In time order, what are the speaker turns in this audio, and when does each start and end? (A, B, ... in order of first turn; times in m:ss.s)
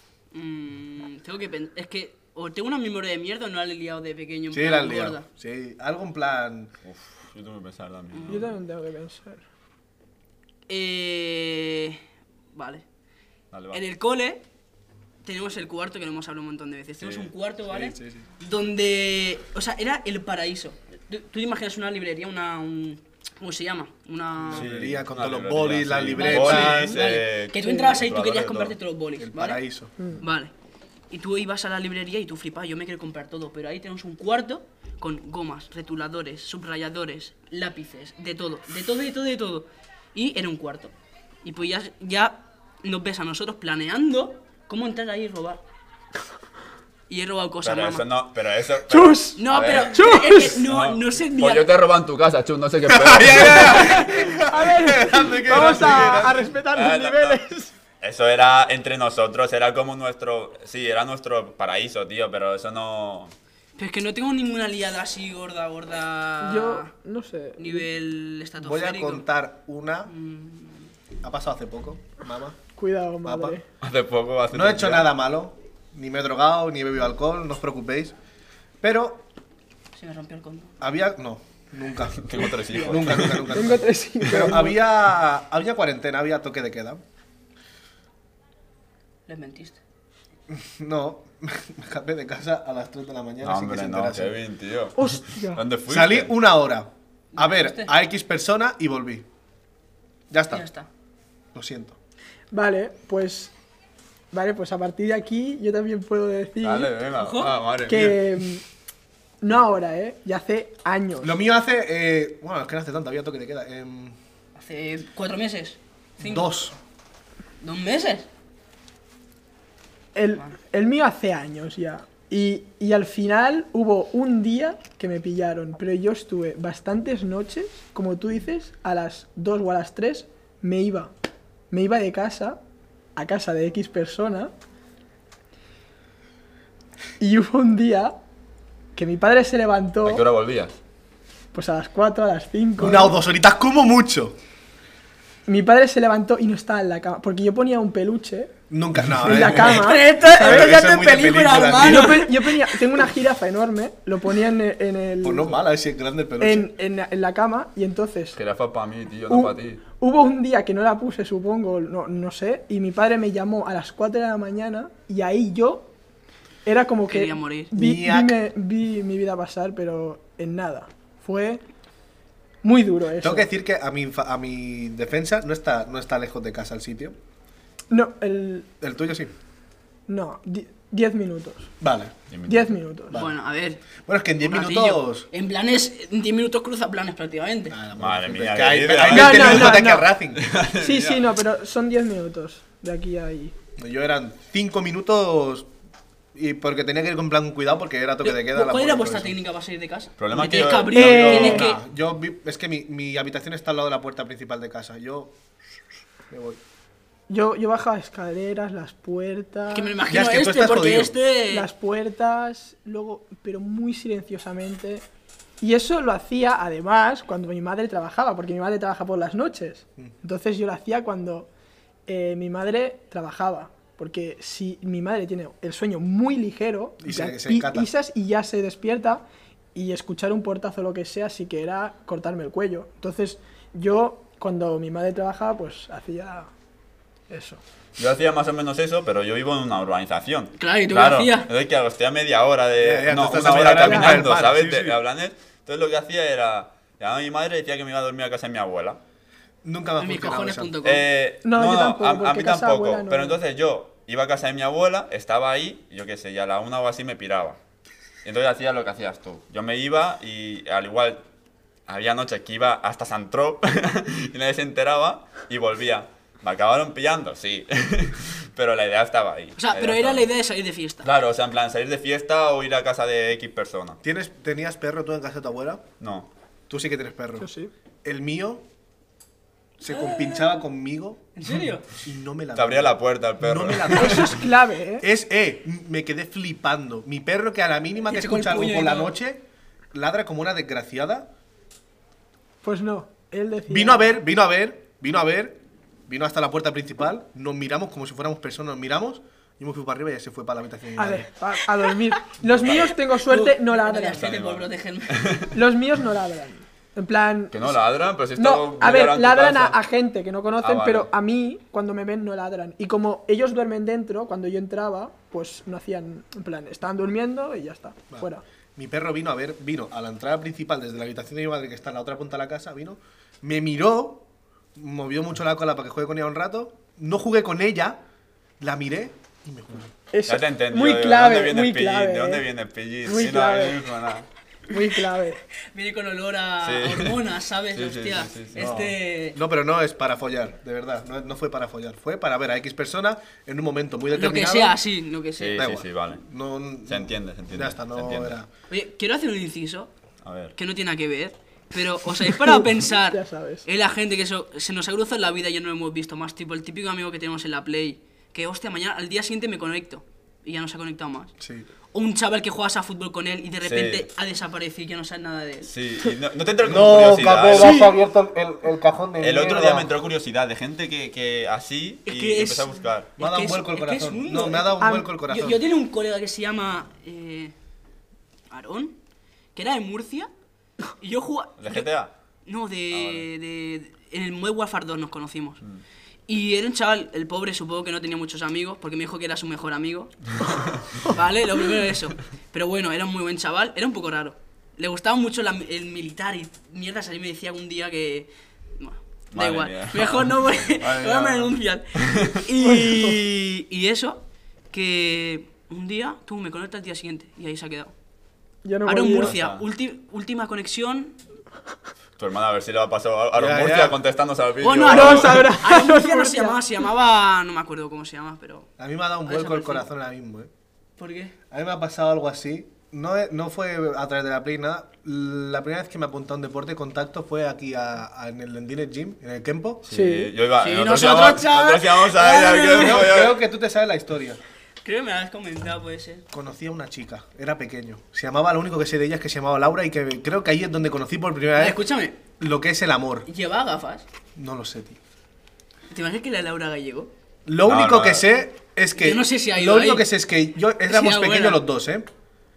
0:00.3-0:05.2 A
0:04.5-0:06.7 B
0:06.8-0:08.5 C
0:08.1-0:08.4 A
0:08.3-0:09.4 D
0:10.7-0:12.0 A
0:12.5-0:12.8 A
0:13.5-0:13.8 C
0:13.7-0:14.4 A
0:15.2-0:24.7 A
0:17.0-0:17.3 C
0:17.7-0:18.2 B
0:24.4-0:27.0 B
0:24.5-0:28.8 C
0:26.1-0:29.6 A
0:27.6-0:27.9 D
0:29.2-0:29.9 B
0:30.2-0:30.5 A
0:31.1-0:45.6 A
0:47.1-0:48.0 A
0:47.6-0:54.3 C
0:48.9-0:50.6 D
0:49.4-0:51.7 A
0:52.9-0:56.5 B
0:54.0-0:57.7 D
0:55.5-0:57.4 C
0:58.0-1:03.3 C
1:03.8-1:06.9 A
1:06.4-1:07.9 D
1:07.6-1:09.2 A
1:08.6-1:10.1 B
1:10.1-1:10.9 A
1:11.2-1:12.6 B
1:12.8-1:13.6 D
1:13.2-1:13.6 B
1:13.8-1:15.1 C
1:14.5-1:18.1 B
1:18.8-1:19.2 B
1:20.0-1:20.7 A
1:20.8-1:27.0 B
1:22.2-1:23.7 C
1:22.8-1:24.8 D
1:24.2-1:24.5 C
1:29.3-1:29.8 A
1:30.5-1:34.4 B
1:33.4-1:36.3 C
1:35.0-1:35.6 D
1:35.9-1:39.2 B
1:37.3-1:37.9 A
1:40.3-1:40.6 B
1:40.5-1:40.9 A
1:41.5-1:42.0 B
1:42.5-1:43.5 D
1:44.3-1:46.9 D
1:46.6-1:48.2 C
1:47.2-1:47.6 A
1:47.8-1:48.6 D
1:49.4-1:51.4 D
1:51.2-1:54.2 B
1:54.6-1:56.5 A
1:56.2-1:56.8 B
1:57.6-1:58.3 A
2:00.1-2:11.1 D
2:11.7-2:12.6 D
2:13.2-2:14.5 D
2:17.2-2:18.1 D
2:18.9-2:20.2 D
2:20.0-2:20.8 C
2:21.5-2:23.2 D
2:22.8-2:24.4 B
2:25.4-2:28.5 D
2:28.7-2:32.2 B
2:29.2-2:30.7 D
2:29.3-2:29.7 C
2:29.6-2:32.8 A
2:31.8-2:35.6 D
2:35.2-2:36.7 B
2:36.4-2:38.4 D
2:38.3-2:39.8 C
2:39.3-2:45.9 D
2:46.6-2:51.6 D
2:47.1-2:47.7 A
2:47.7-2:48.4 B
2:52.6-2:53.5 D
2:53.2-2:57.2 B
2:57.9-2:58.7 D
2:58.8-2:59.3 B
3:00.1-3:01.7 D
3:01.8-3:02.1 B
3:02.3-3:02.7 C
3:02.5-3:03.2 D
3:03.1-3:03.8 A
3:04.0-3:05.3 B
3:04.4-3:07.8 A
3:07.7-3:10.4 B
3:08.0-3:11.3 C
3:09.1-3:10.1 D
3:10.8-3:13.5 D
3:13.8-3:15.7 B
3:16.3-3:19.4 B
3:18.2-3:21.8 A
3:20.2-3:21.7 C
3:20.9-3:21.7 D
3:21.3-3:25.3 B
3:26.3-3:26.6 B
3:27.3-3:30.0 D
3:29.7-3:31.7 A
3:30.1-3:31.1 B
3:31.5-3:35.0 D
3:35.6-3:41.5 D
3:42.1-3:49.2 D
3:47.0-3:47.9 B
3:49.7-3:56.5 D
3:57.3-3:57.6 D
3:58.0-4:09.0 C
4:00.6-4:01.5 A
4:02.8-4:05.0 B
4:03.7-4:04.2 D
4:09.6-4:10.7 B
4:10.0-4:11.0 A
4:10.8-4:17.6 C
4:11.4-4:13.4 D
4:18.2-4:21.2 C
4:21.9-4:30.3 C
4:29.6-4:31.1 A
4:31.0-4:34.0 C
4:34.0-4:35.8 B
4:36.0-4:36.3 C
4:36.7-4:37.5 B
4:37.4-4:37.7 D
4:38.0-4:38.6 B
4:39.8-4:44.5 B
4:39.9-4:40.6 A
4:41.4-4:41.8 A
4:42.6-4:44.4 C
4:43.9-4:45.0 D
4:45.0-4:49.4 B
4:48.1-4:49.1 A
4:49.9-4:51.3 B
4:52.6-4:54.2 D
4:53.7-5:01.3 B
5:01.0-5:04.2 D
5:02.5-5:03.0 C
5:02.7-5:05.4 A
5:04.1-5:05.6 C
5:05.5-5:07.8 D
5:07.5-5:09.8 C
5:08.4-5:18.4 D
5:10.6-5:11.1 C
5:18.1-5:24.2 B
5:24.8-5:28.0 B
5:28.6-5:29.9 B
5:30.1-5:32.4 D
5:30.2-5:34.3 C
5:33.0-5:33.8 D
5:34.7-5:35.4 D
5:35.6-5:39.4 A
5:36.6-5:37.2 C
5:37.7-5:38.7 C
5:38.6-5:44.8 B
5:44.1-5:45.6 A
5:45.4-5:46.2 C
5:45.5-5:48.5 B
5:46.8-5:48.4 C
5:48.7-5:49.9 A
5:50.2-5:50.5 C
5:50.5-6:01.3 A
5:52.4-5:53.6 D
6:01.4-6:01.7 B
6:01.9-6:05.7 A
6:03.6-6:04.1 C
6:05.6-6:07.9 C
6:06.6-6:09.9 B
6:09.2-6:13.1 C
6:12.0-6:17.5 A
6:13.2-6:15.6 B
6:14.8-6:15.1 D
6:18.5-6:19.0 A
6:19.5-6:20.3 A
6:21.0-6:21.9 A
6:21.6-6:22.1 C
6:22.4-6:25.6 A
6:22.9-6:23.3 C
6:26.3-6:30.3 A
6:30.4-6:30.8 C
6:31.0-6:47.9 A
6:39.3-6:42.4 C
6:42.6-6:43.2 D
6:48.6-6:49.3 D
6:48.8-6:51.2 A
6:49.1-6:49.6 C
6:52.2-6:55.5 C
6:53.3-6:54.0 B
6:54.6-6:58.7 A
6:54.8-6:56.6 D
6:58.8-7:00.5 B
6:59.2-6:59.9 A
7:01.0-7:01.3 A
7:01.5-7:09.8 B
7:09.8-7:13.4 C
7:09.9-7:10.3 D
7:10.6-7:13.2 A
7:12.7-7:14.4 B
7:14.8-7:16.2 A
7:16.3-7:21.8 B
7:21.6-7:22.2 A
7:22.4-7:23.3 B
7:23.3-7:24.0 A
7:24.4-7:25.0 B
7:25.9-7:27.1 A
7:27.4-7:32.1 B
7:27.6-7:28.2 C
7:29.0-7:30.1 A
7:30.9-7:31.6 A